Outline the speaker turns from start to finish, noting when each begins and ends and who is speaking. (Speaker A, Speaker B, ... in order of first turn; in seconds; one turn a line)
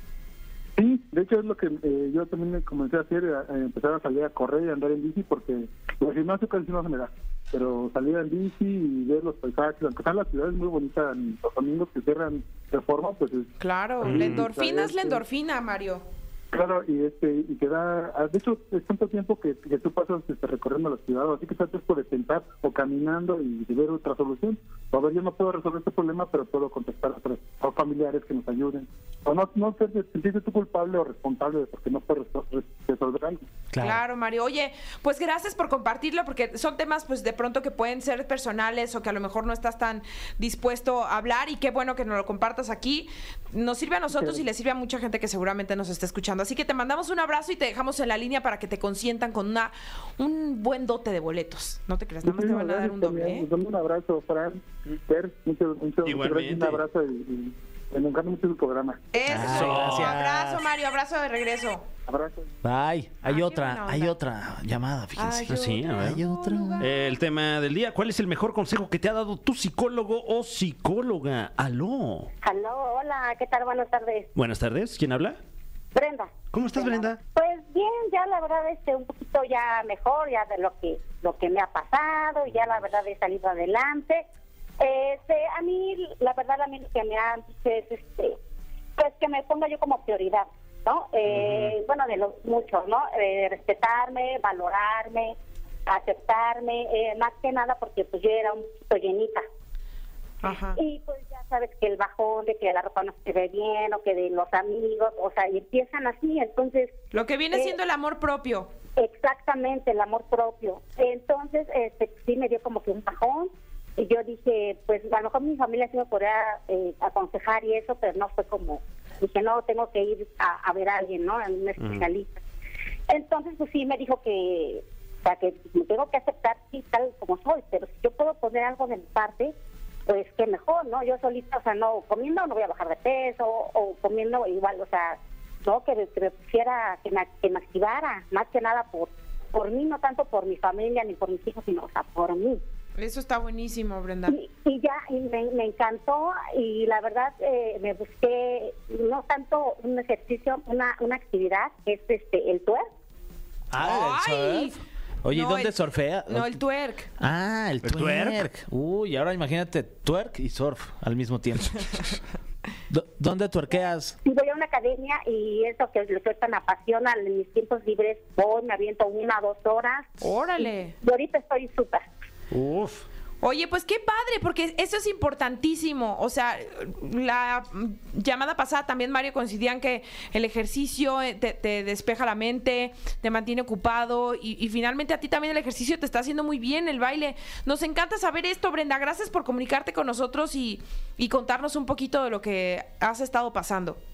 Speaker A: 0.8-13.5
Speaker B: 13.6-16.0
Speaker C: 14.0-14.5
Speaker A: 14.2-15.2
Speaker A: 16.5-33.4
Speaker D: 33.7-34.0
Speaker B: 33.8-53.5
Speaker A: 44.1-44.4
Speaker A: 52.2-59.1
Speaker C: 56.0-56.8
Speaker B: 59.1-61.9
Speaker D: 59.3-60.6
Speaker C: 59.3-60.1
Speaker A: 62.1-62.5
Speaker D: 62.6-66.9
Speaker B: 63.2-64.1
Speaker B: 65.2-67.1
Speaker C: 65.5-66.2
Speaker C: 66.8-72.3
Speaker E: 72.4-74.3
Speaker C: 74.4-75.4
Speaker E: 76.0-84.2
Speaker C: 76.5-77.2
Speaker E: 84.8-88.4
Speaker E: 89.0-95.3
Speaker C: 91.3-91.7
Speaker E: 95.9-99.4
Speaker B: 100.4-100.8
Speaker E: 100.8-107.0
Speaker B: 107.1-108.7
Speaker E: 109.0-122.4
Speaker E: 123.1-129.5
Speaker E: 130.1-142.6
Speaker B: 143.0-144.4
Speaker E: 144.3-152.9
Speaker D: 153.7-156.6
Speaker B: 153.8-154.8
Speaker B: 155.3-155.8
Speaker B: 156.3-157.1
Speaker D: 157.2-162.2
Speaker C: 157.8-158.4
Speaker D: 162.9-164.2
Speaker E: 164.2-172.0
Speaker B: 170.2-171.0
Speaker C: 172.5-173.0
Speaker B: 173.4-194.0